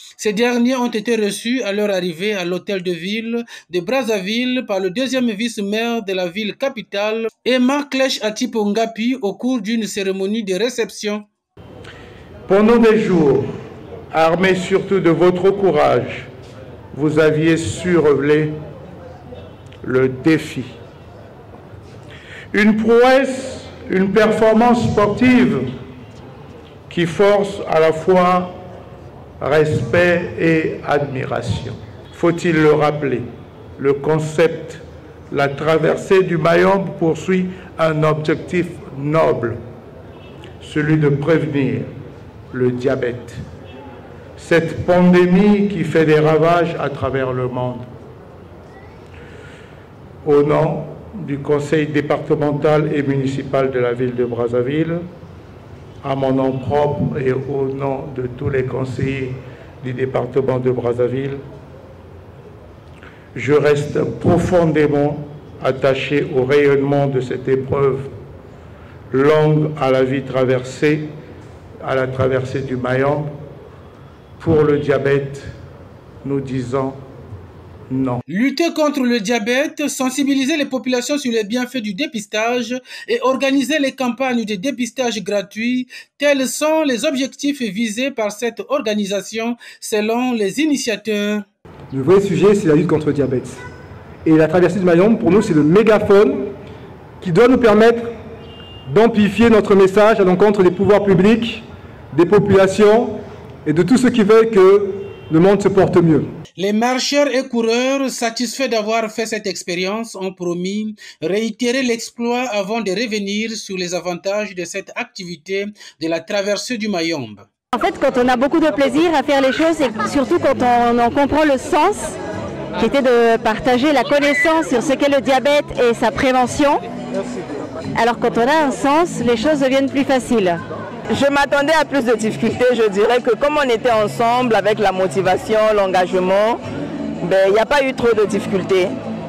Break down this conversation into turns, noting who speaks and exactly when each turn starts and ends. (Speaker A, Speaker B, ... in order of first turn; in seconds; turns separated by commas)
Speaker A: 0.2-11.3, Speaker B: 12.5-13.5, Speaker B: 14.1-16.3, Speaker B: 16.9-18.6, Speaker B: 19.8-20.7, Speaker B: 22.5-25.6, Speaker B: 26.9-28.6, Speaker B: 29.4-33.3, Speaker B: 33.8-39.6, Speaker B: 40.6-41.9, Speaker B: 42.5-43.4, Speaker B: 44.4-47.9, Speaker B: 50.2-55.1, Speaker B: 56.0-61.4, Speaker B: 63.3-68.1, Speaker B: 69.1-71.1, Speaker B: 71.8-73.3, Speaker B: 74.4-75.5, Speaker B: 76.2-77.0, Speaker B: 77.9-78.2, Speaker A: 78.3-91.5, Speaker C: 91.9-93.6, Speaker C: 94.2-96.5, Speaker C: 97.2-98.1, Speaker C: 98.9-106.3, Speaker A: 106.6-117.5, Speaker D: 117.7-122.2, Speaker D: 122.8-126.8, Speaker D: 128.0-130.6, Speaker E: 131.1-136.6, Speaker E: 137.2-138.9